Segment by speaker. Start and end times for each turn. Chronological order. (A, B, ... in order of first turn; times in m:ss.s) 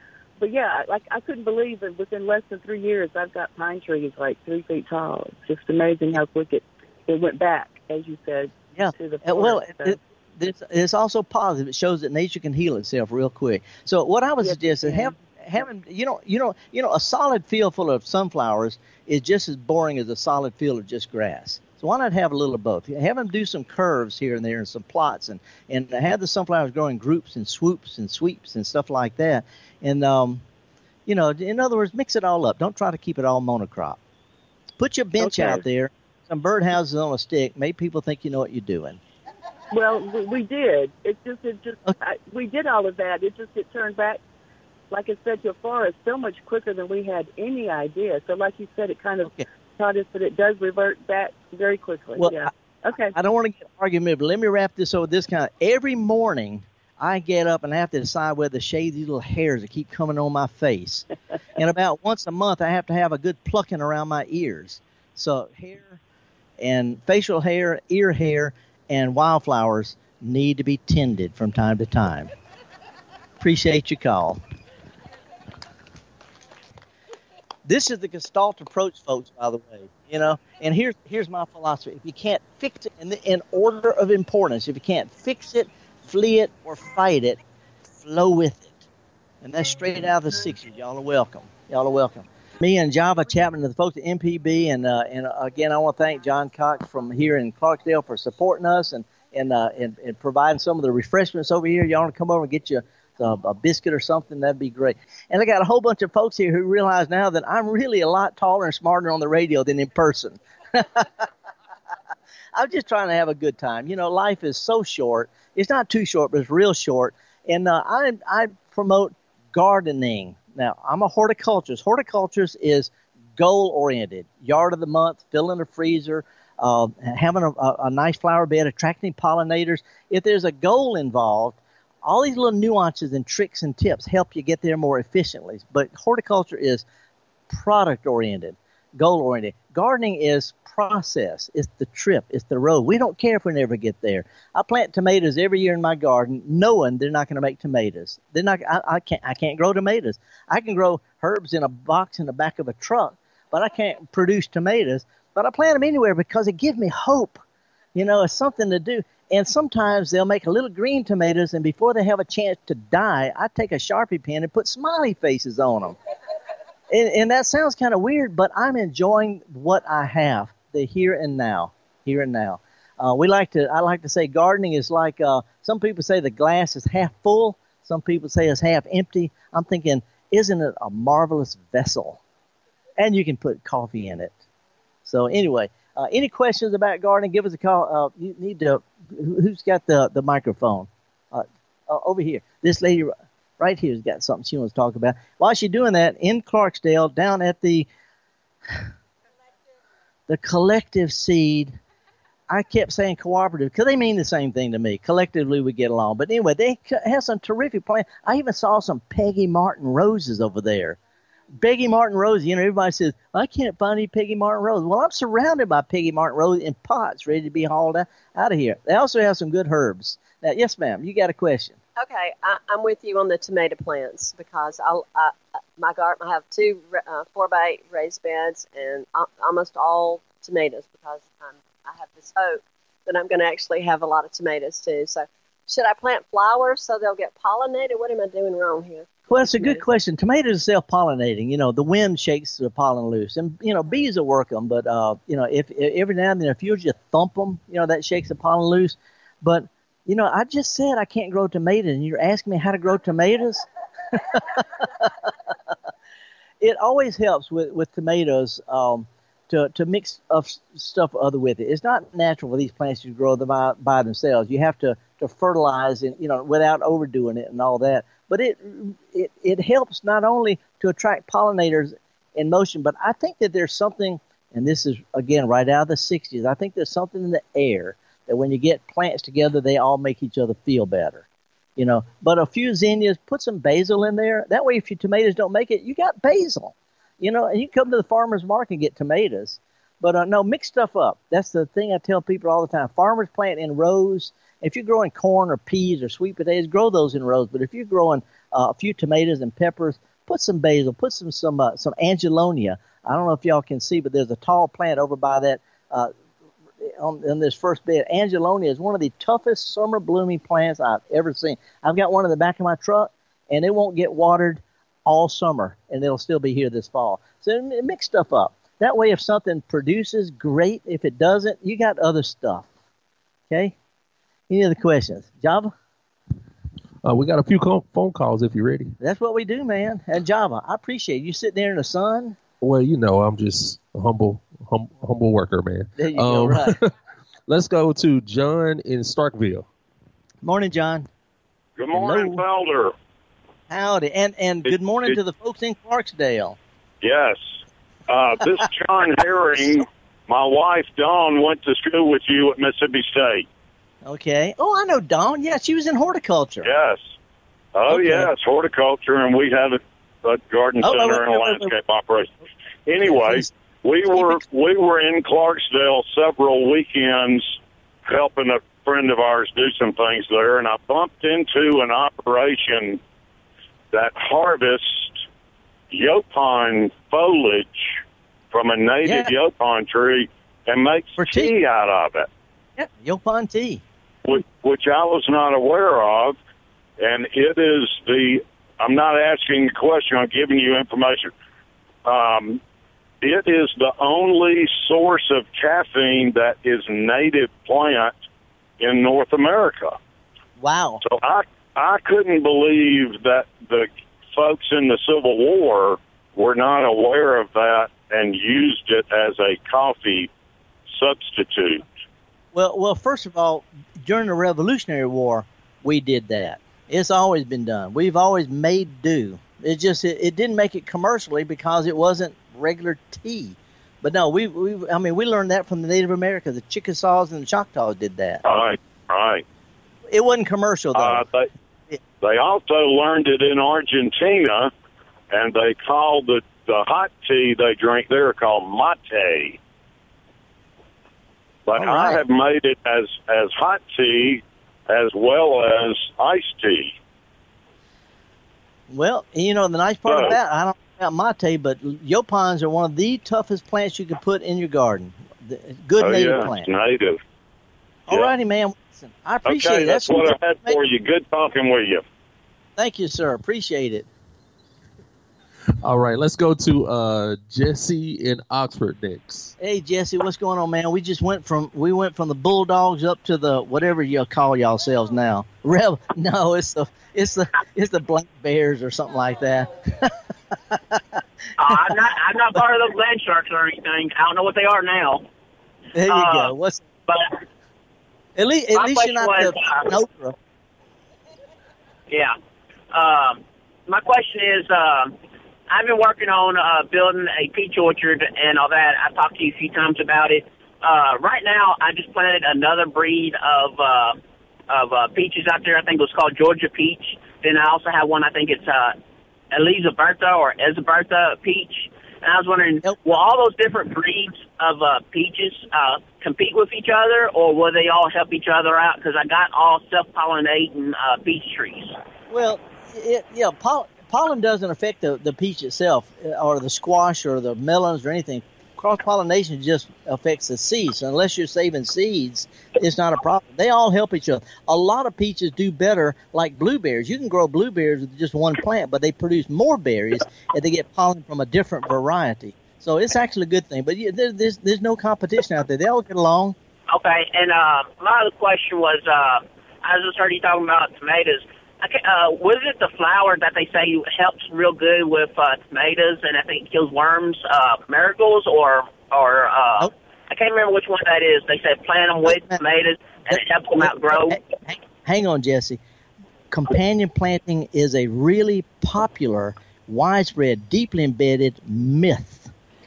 0:00.4-0:10.0 A
0:08.7-0:30.4 B
0:14.4-0:15.2 A
0:31.0-0:34.0 B
0:34.8-0:39.0 B
0:35.2-0:35.6 A
0:39.7-0:44.2 A
0:44.9-0:53.2 A
0:52.2-0:52.5 B
0:53.1-1:06.0 B
1:06.6-1:12.3 B
1:13.4-1:14.4 B
1:17.6-1:27.4 B
1:27.9-1:28.8 B
1:29.4-1:51.3 B
1:52.5-2:16.8 B
2:17.5-2:37.4 B
2:37.9-2:46.0 B
2:46.9-3:02.2 B
3:03.0-3:04.3 B
3:05.0-3:17.9 B
3:20.3-3:21.8 B
3:22.5-3:31.0 B
3:31.5-3:41.8 B
3:42.0-3:59.8 C
3:59.3-4:15.3 B
4:16.6-4:41.2 B
4:41.8-5:06.1 B
5:06.8-5:22.7 B
5:23.5-5:23.7 B
5:24.5-5:25.7 B
5:27.0-5:28.9 D
5:29.0-5:32.4 B
5:32.6-5:36.9 D
5:36.0-5:36.8 B
5:37.5-5:39.7 D
5:40.4-5:41.1 B
5:41.8-5:42.9 E
5:41.9-5:42.4 B
5:43.7-5:46.6 B
5:47.0-5:47.4 E
5:48.1-5:53.4 E
5:54.0-5:56.7 B
5:56.6-5:57.0 E
5:57.7-6:02.3 E
5:57.9-5:58.3 B
6:00.8-6:01.7 B
6:02.9-6:13.0 E
6:03.0-6:03.5 B
6:04.1-6:04.4 B
6:13.9-6:15.2 E
6:15.9-6:18.0 E
6:18.5-6:22.3 E
6:19.0-6:19.3 B
6:21.2-6:21.5 B
6:22.8-6:23.8 B
6:24.2-6:26.4 E
6:27.0-6:31.3 E
6:32.0-6:32.6 E
6:33.2-6:38.1 E
6:38.8-6:40.0 E
6:40.6-6:41.0 B
6:41.0-6:50.3 E
6:50.9-6:51.8 E
6:52.5-7:08.4 B
7:08.4-7:09.4 E
7:10.1-7:11.2 B
7:10.9-7:11.5 E
7:12.2-7:14.7 E
7:15.3-7:19.6 E
7:21.7-7:26.9 E
7:21.8-7:22.2 B
7:28.9-7:36.7 B
7:30.1-7:30.3 E
7:36.0-7:37.2 E
7:38.1-7:40.8 B
7:39.4-7:42.0 E
7:42.8-7:44.1 B
7:45.8-7:49.5 D
7:49.6-8:02.0 B
8:01.6-8:05.2 F
8:05.9-8:06.9 B
8:06.1-8:06.5 F
8:08.4-8:10.4 B
8:08.7-8:09.9 F
8:12.1-8:12.3 F
8:12.9-8:15.1 F
8:15.7-8:24.2 F
8:24.7-8:29.0 F
8:29.5-8:42.0 F
8:32.8-8:33.1 B
8:42.3-9:06.6 B
9:06.9-9:24.4 F
9:22.2-9:22.6 B
9:23.3-9:25.8 B
9:26.5-9:32.5 B